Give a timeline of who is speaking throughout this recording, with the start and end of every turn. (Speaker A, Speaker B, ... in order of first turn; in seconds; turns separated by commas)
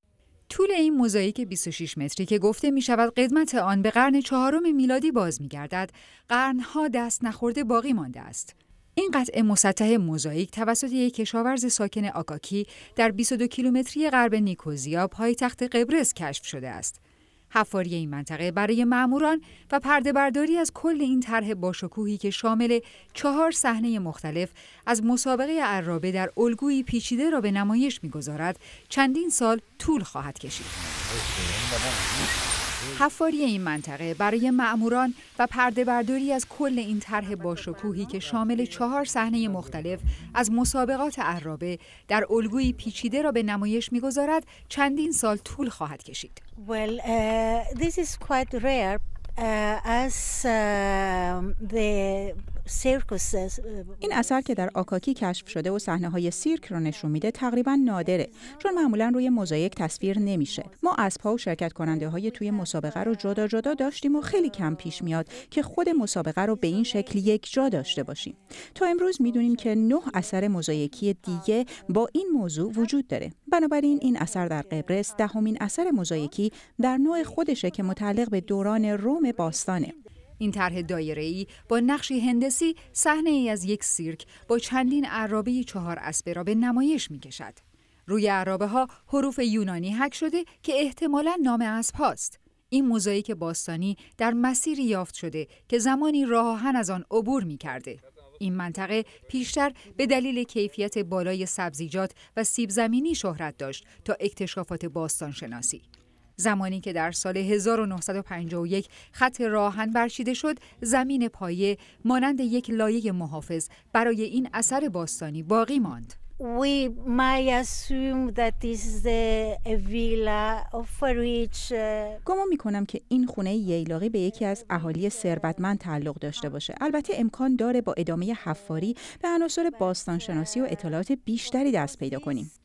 Speaker A: 0.5-17.0, Speaker A: 17.5-30.7, Speaker A: 32.9-46.4, Speaker B: 46.6-54.7, Speaker C: 54.0-79.9, Speaker A: 80.4-105.8, Speaker A: 106.4-116.2, Speaker B: 116.4-122.2, Speaker C: 122.2-132.5